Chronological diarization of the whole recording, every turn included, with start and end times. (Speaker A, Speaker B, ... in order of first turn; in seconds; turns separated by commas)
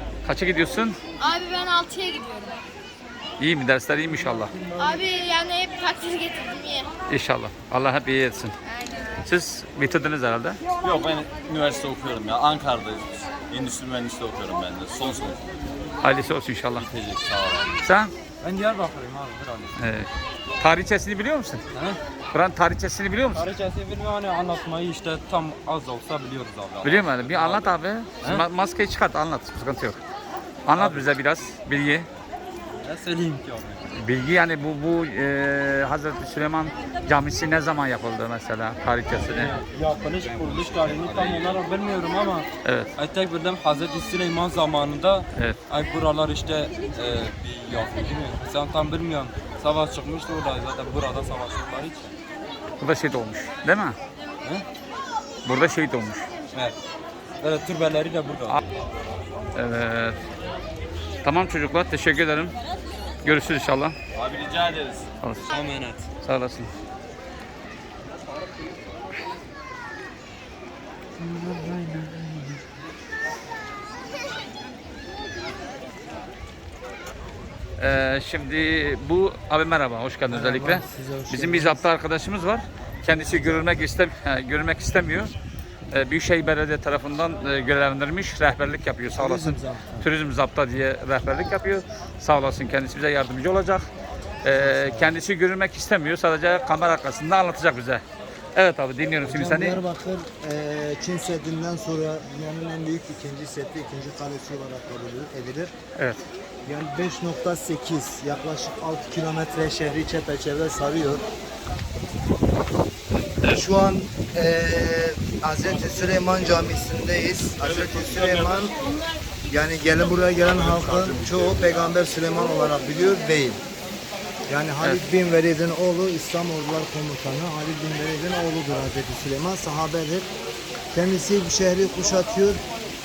Speaker A: 0.2-1.0, Speaker B: 1.2-2.6, Speaker A: 3.4-4.6, Speaker B: 4.8-6.9, Speaker A: 7.1-8.5, Speaker B: 8.7-9.2, Speaker A: 9.2-10.6, Speaker C: 10.8-15.5, Speaker A: 16.0-16.8, Speaker C: 16.8-17.8, Speaker A: 17.8-18.1, Speaker D: 18.4-19.8, Speaker A: 19.8-20.1, Speaker A: 20.6-21.6, Speaker D: 21.7-22.0, Speaker A: 22.3-23.5, Speaker D: 23.3-27.7, Speaker A: 26.8-30.0, Speaker A: 30.6-32.1, Speaker D: 30.7-31.1, Speaker D: 32.7-34.0, Speaker A: 33.9-39.6, Speaker D: 39.3-52.1, Speaker C: 40.0-41.6, Speaker A: 42.6-42.9, Speaker A: 52.8-54.0, Speaker A: 55.4-56.3, Speaker D: 57.4-58.6, Speaker A: 59.5-60.2, Speaker A: 61.2-62.5, Speaker A: 63.2-63.9, Speaker C: 64.1-65.1, Speaker D: 65.4-66.1, Speaker A: 66.2-66.7, Speaker A: 77.8-85.3, Speaker E: 80.3-81.8, Speaker E: 83.1-83.9, Speaker A: 85.9-93.9, Speaker E: 89.1-90.1, Speaker A: 94.4-98.0, Speaker E: 94.5-95.2, Speaker A: 98.5-99.8, Speaker E: 99.2-105.7, Speaker A: 106.0-106.2, Speaker E: 106.6-111.2, Speaker E: 113.4-118.7, Speaker E: 119.5-123.6, Speaker E: 124.5-130.3, Speaker E: 130.9-132.6